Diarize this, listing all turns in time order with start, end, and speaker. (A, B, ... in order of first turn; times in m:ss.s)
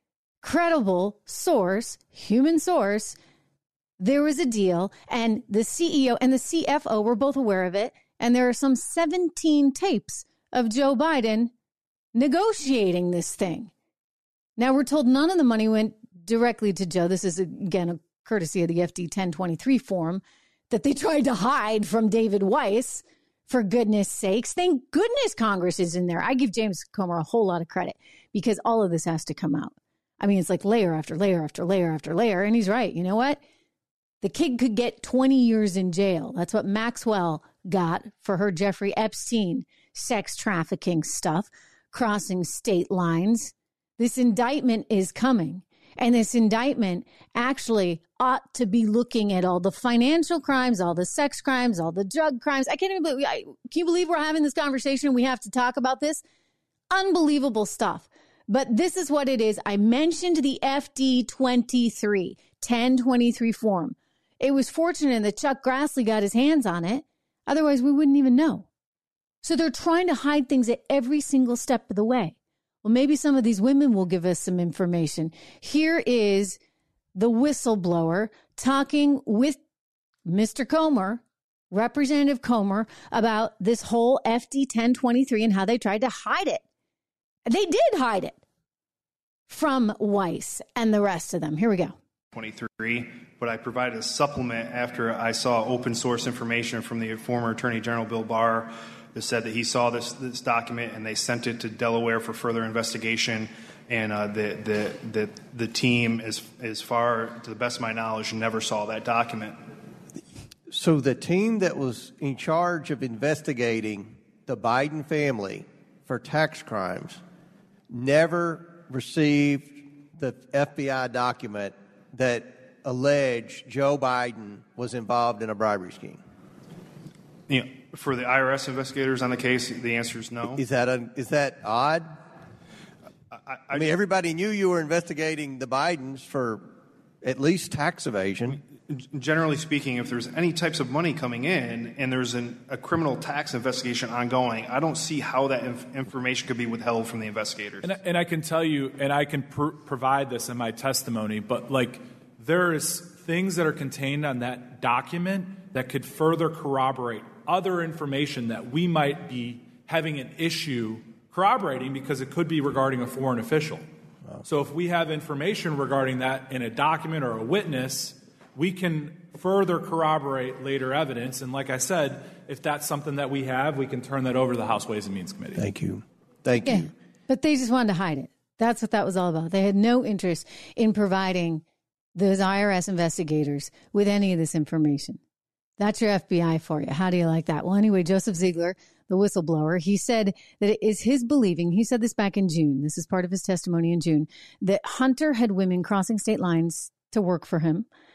0:00.4-0:03.2 A
0:04.0-0:11.5 A
0:12.1-0:13.7 A
0:14.6-0:33.4 A
0:34.2-0:56.2 A
0:56.9-1:08.7 A
1:09.4-1:16.6 A
1:17.2-1:19.6 A
1:20.2-1:26.6 A
1:27.5-1:28.4 A
1:29.5-1:31.9 A
1:32.3-1:49.6 B
1:50.7-1:57.2 C
1:57.9-2:06.2 C
2:07.5-2:10.6 B
2:10.5-2:12.2 C
2:13.3-2:14.0 B
2:13.7-2:16.7 C
2:17.2-2:18.6 C
2:18.5-2:27.9 B
2:27.8-2:43.8 D
2:44.4-2:55.6 D
2:55.5-2:56.9 C
2:56.6-3:01.6 A
3:02.2-3:05.2 A
3:05.8-3:17.9 A